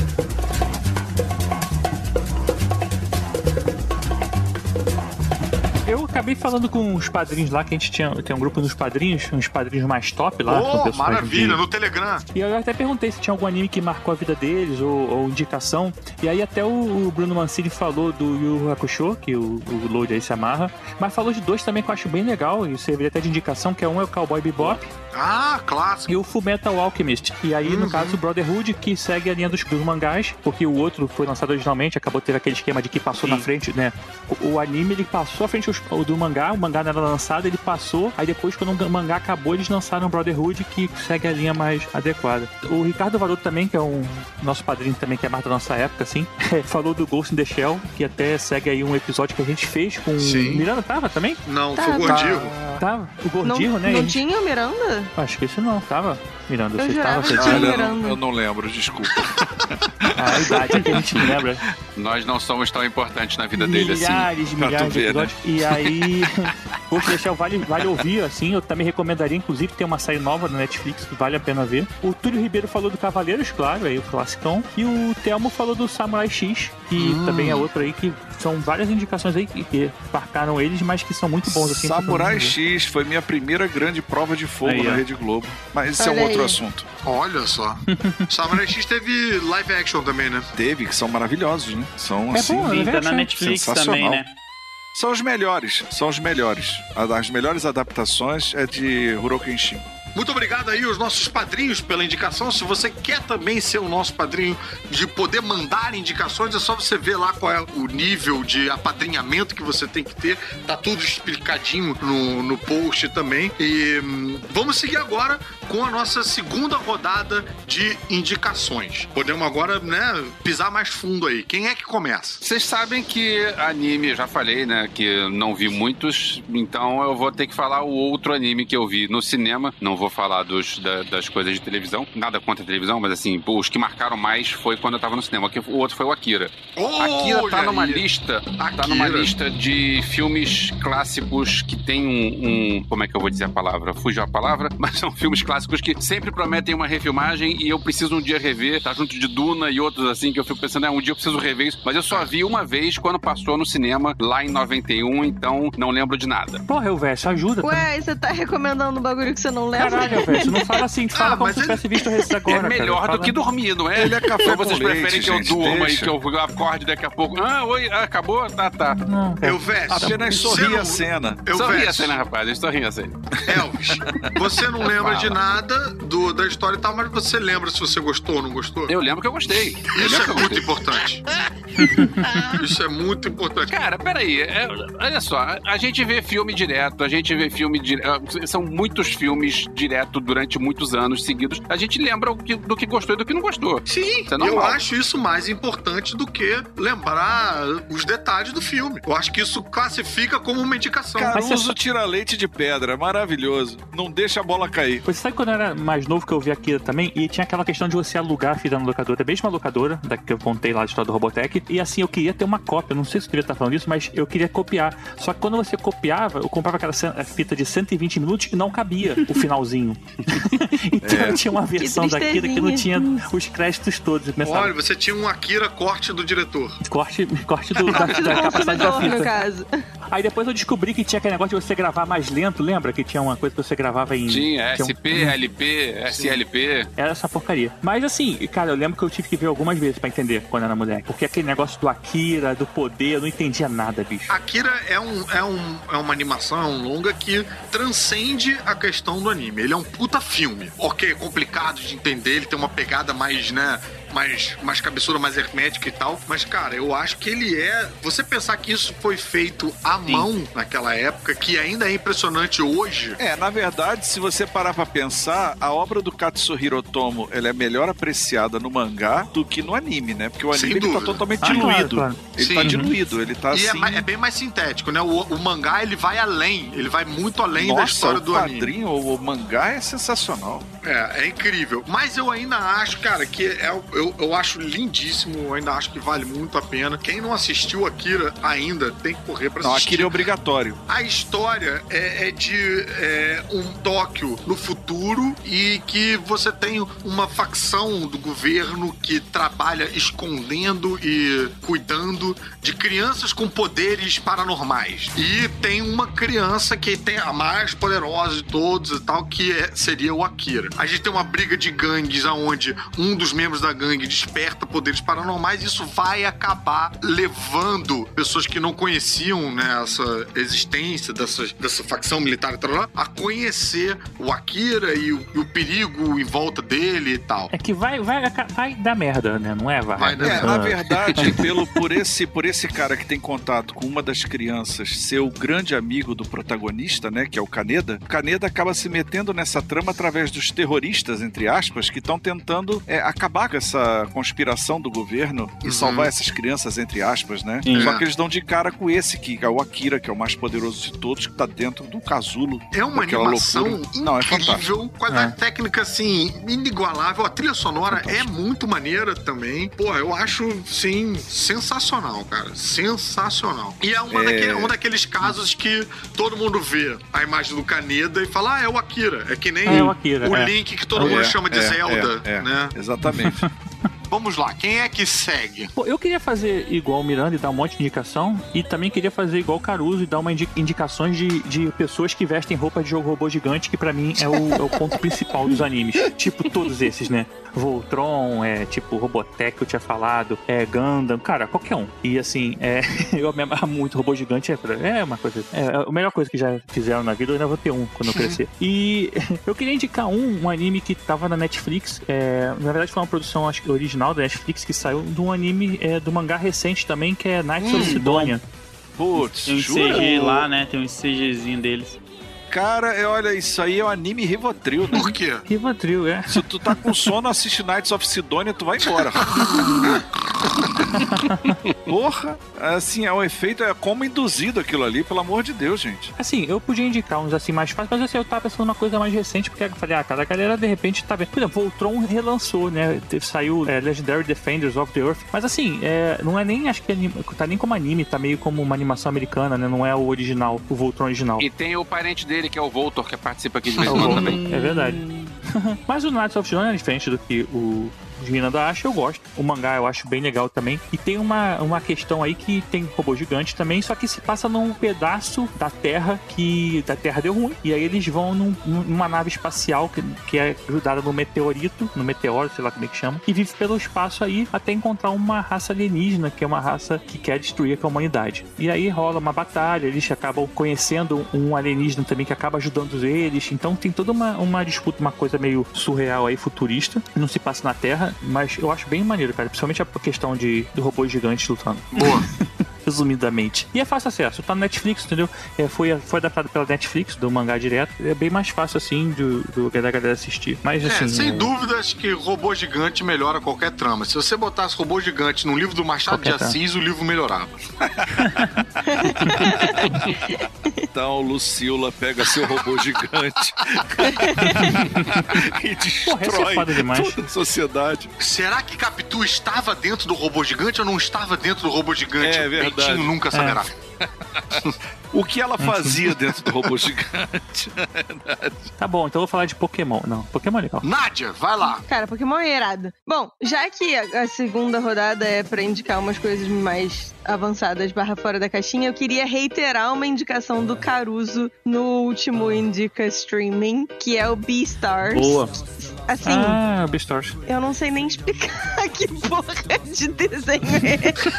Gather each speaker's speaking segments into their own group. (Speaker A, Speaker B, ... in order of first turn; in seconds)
Speaker A: 5.9-11.6, 12.3-24.8, 26.1-51.4, 52.1-54.2, 55.2-57.7, 60.2-61.6, 63.6-82.5, 87.9-88.2, 92.3-93.3, 156.7-157.8, 159.8-163.3, 169.1-170.2, 181.8-182.1, 201.3-201.7, 205.1-224.7, 226.8-229.4, 230.1-235.3, 237.0-244.3, 271.4-272.9, 327.5-331.4, 355.1-355.4, 369.6-371.2, 373.1-373.5, 375.8-408.4, 415.5-416.4, 426.2-441.5, 443.9-482.1, 482.9-491.5, 496.1-496.6, 504.6-505.2, 506.1-507.3, 513.3-513.6, 515.6-516.0, 518.8-520.9, 535.1-535.5, 536.2-537.4
Speaker B: 10.4-12.2, 25.1-26.1, 27.6-28.2, 50.2-50.7, 51.5-52.5, 77.0-77.7, 87.0-90.5, 100.2-122.4, 136.8-138.1, 138.6-139.3, 161.2-161.9, 169.4-172.2, 173.5-178.9, 179.9-181.2, 182.6-183.8, 193.9-201.6, 224.4-226.8, 236.1-236.4, 244.3-263.2, 270.5-271.6, 272.4-272.8, 273.5-278.7, 280.8-290.2, 290.9-327.5, 330.0-330.7, 345.6-346.1, 347.7-348.0, 352.7-372.8, 374.1-375.7, 398.1-398.4, 407.6-408.0, 414.9-415.4, 419.0-420.9, 443.8-444.3, 481.9-482.3, 490.8-497.6, 508.2-513.7, 520.8-521.8
Speaker C: 51.7-52.5, 53.4-55.1, 56.8-58.2, 86.0-86.6, 157.6-160.6, 221.8-223.1, 227.9-229.7, 521.9-536.6, 537.5-541.2
Speaker D: 57.4-61.4, 64.5-66.1, 81.5-86.9, 90.6-92.8, 93.3-94.2, 95.0-99.9, 164.0-166.1, 169.9-171.7, 173.5-174.3, 175.0-175.3, 201.2-205.0, 221.0-221.4, 263.2-274.1, 277.5-280.6, 289.6-290.8, 330.2-354.7, 364.1-364.8, 371.0-373.4, 409.0-410.5, 412.5-415.1, 416.3-419.5, 421.9-426.1, 444.4-445.3, 497.9-498.7, 499.3-500.3, 500.9-508.1, 512.2-513.1, 514.0-514.5, 515.1-518.7
Speaker E: 62.0-64.3, 122.4-156.6, 162.5-169.0, 171.5-173.1, 175.0-175.3, 178.9-180.8, 182.2-182.5, 183.7-194.8, 234.3-236.9, 441.4-444.4
Speaker F: 84.7-85.0, 92.7-94.3, 347.7-348.0, 407.7-408.4, 409.4-412.0